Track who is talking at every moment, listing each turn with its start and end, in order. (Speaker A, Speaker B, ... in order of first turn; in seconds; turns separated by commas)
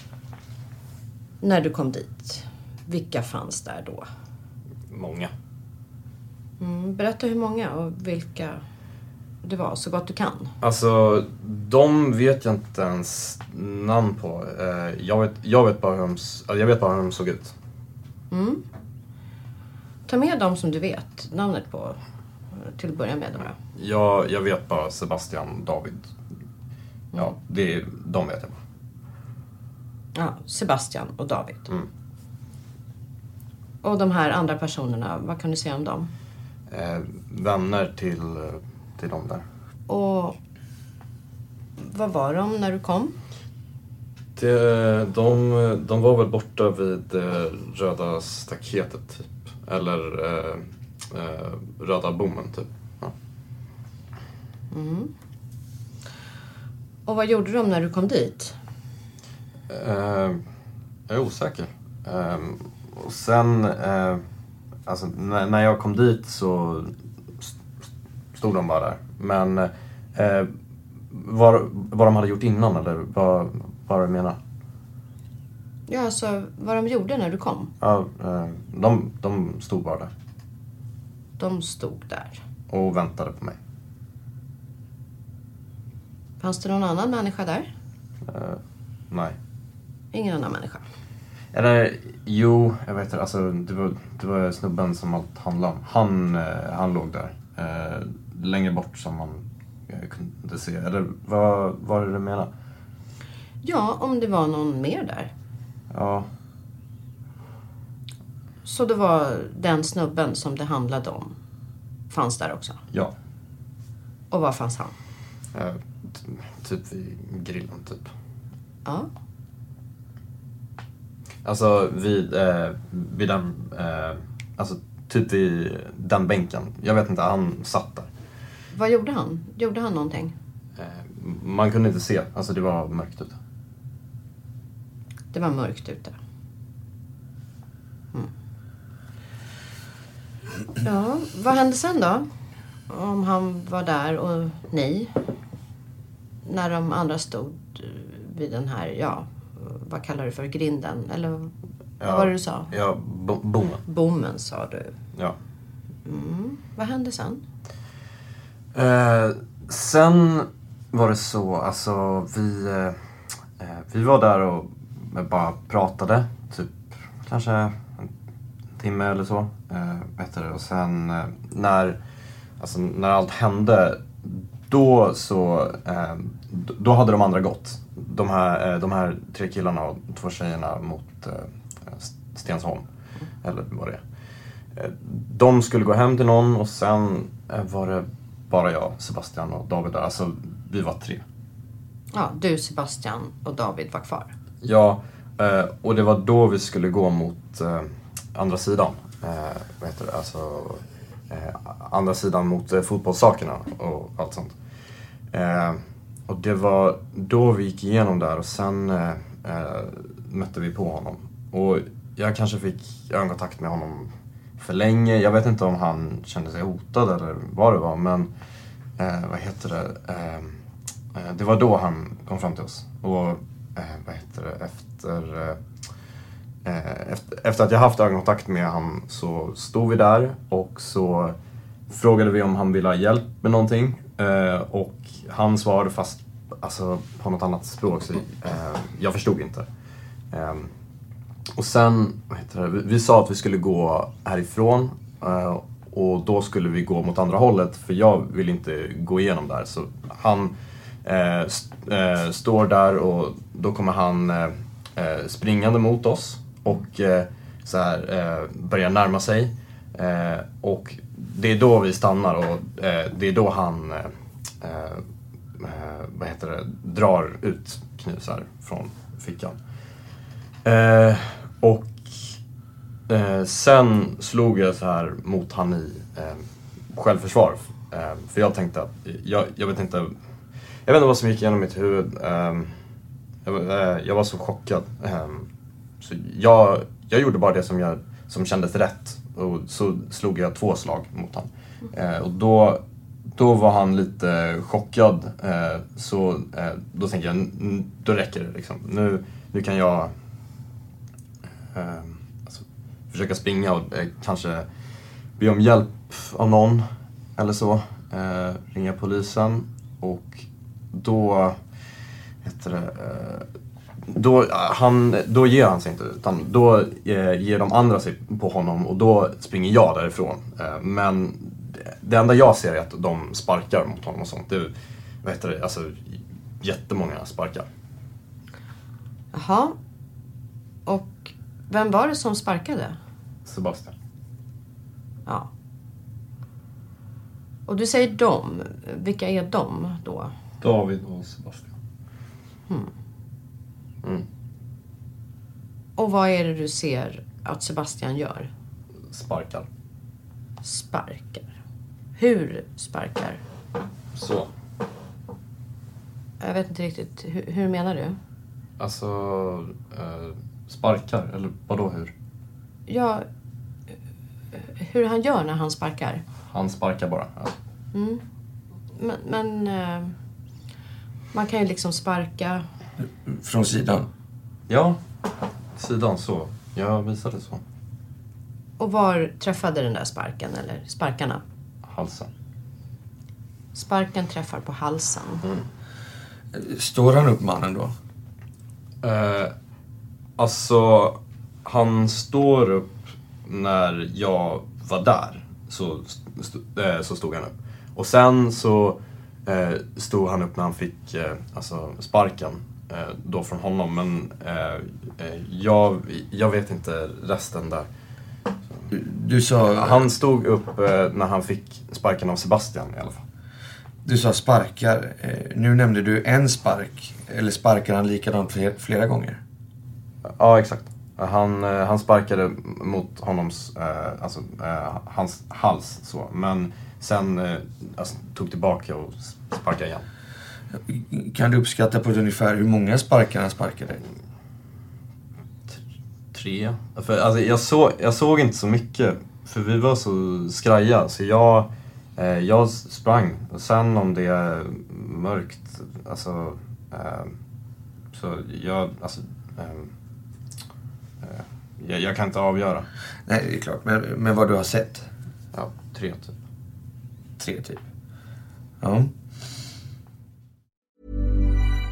Speaker A: 1.4-4.1, Speaker B: 4.9-5.3, Speaker A: 6.6-8.6, Speaker A: 9.4-10.5, Speaker B: 10.6-17.5, Speaker A: 18.3-18.6, Speaker A: 20.1-22.0, Speaker A: 22.6-23.5, Speaker B: 23.8-26.1, Speaker B: 27.2-28.6, Speaker A: 30.1-31.7, Speaker A: 33.8-36.1, Speaker B: 36.7-39.5, Speaker A: 39.9-40.4, Speaker A: 41.8-43.2, Speaker B: 44.4-53.1, Speaker A: 54.7-55.1, Speaker A: 57.1-58.5, Speaker B: 59.7-60.4, Speaker B: 61.1-64.2, Speaker B: 64.9-67.5, Speaker B: 68.3-70.5, Speaker B: 71.1-74.4, Speaker A: 75.9-77.7, Speaker B: 77.8-80.1, Speaker A: 81.4-82.4, Speaker B: 82.7-83.6, Speaker A: 86.4-87.7, Speaker B: 88.2-89.4, Speaker A: 90.1-90.8, Speaker B: 91.5-102.5, Speaker A: 103.6-105.3, Speaker B: 105.9-106.3, Speaker A: 108.7-111.3, Speaker A: 112.1-112.8, Speaker A: 114.3-114.9, Speaker B: 115.5-118.1, Speaker B: 121.4-128.1, Speaker A: 128.7-130.3, Speaker B: 130.8-133.4, Speaker A: 135.3-136.2, Speaker A: 140.8-142.3, Speaker A: 142.9-145.2, Speaker A: 146.4-151.5, Speaker B: 152.0-153.8, Speaker A: 152.0-152.7, Speaker A: 153.8-154.9, Speaker A: 156.1-157.4, Speaker B: 158.7-163.0, Speaker B: 163.6-168.1, Speaker B: 168.8-172.0, Speaker B: 172.6-182.9, Speaker B: 183.4-184.0, Speaker B: 184.8-191.2, Speaker A: 192.1-194.3, Speaker B: 194.6-204.6, Speaker B: 205.3-218.3, Speaker B: 219.0-220.6, Speaker B: 221.2-225.6, Speaker B: 226.7-231.4, Speaker B: 231.9-239.7, Speaker B: 240.3-240.7, Speaker B: 241.6-265.0, Speaker B: 265.6-269.6, Speaker B: 270.6-272.4, Speaker B: 273.1-280.1, Speaker B: 280.9-282.7, Speaker B: 283.4-285.5, Speaker B: 286.0-292.8, Speaker B: 293.4-300.1, Speaker B: 301.7-304.7, Speaker B: 305.4-311.6, Speaker B: 312.4-313.5, Speaker B: 314.1-327.7, Speaker A: 329.3-329.8, Speaker A: 330.9-333.0, Speaker B: 333.5-333.9, Speaker A: 337.7-340.3, Speaker B: 340.6-341.8, Speaker A: 346.0-348.5, Speaker B: 349.1-349.7, Speaker A: 350.6-351.5, Speaker A: 352.2-353.4, Speaker B: 354.1-354.5, Speaker A: 356.4-358.2, Speaker B: 358.8-362.1, Speaker A: 362.9-363.3, Speaker A: 364.6-366.2, Speaker B: 366.5-367.6, Speaker A: 367.9-368.2, Speaker A: 368.9-370.1, Speaker A: 371.3-372.7, Speaker C: 373.3-374.1, Speaker B: 374.7-375.0, Speaker B: 375.8-377.6, Speaker A: 378.8-381.4, Speaker B: 381.8-382.3, Speaker A: 383.7-385.4, Speaker C: 386.5-387.9, Speaker B: 389.0-389.5, Speaker B: 390.4-407.9, Speaker C: 408.9-410.1, Speaker B: 409.7-413.2, Speaker C: 414.1-419.4, Speaker B: 420.2-430.1, Speaker C: 430.8-434.0, Speaker B: 436.3-447.3, Speaker B: 448.1-449.9, Speaker B: 451.2-452.9, Speaker C: 453.3-455.1, Speaker B: 455.5-456.4, Speaker C: 457.4-457.8, Speaker C: 458.8-459.1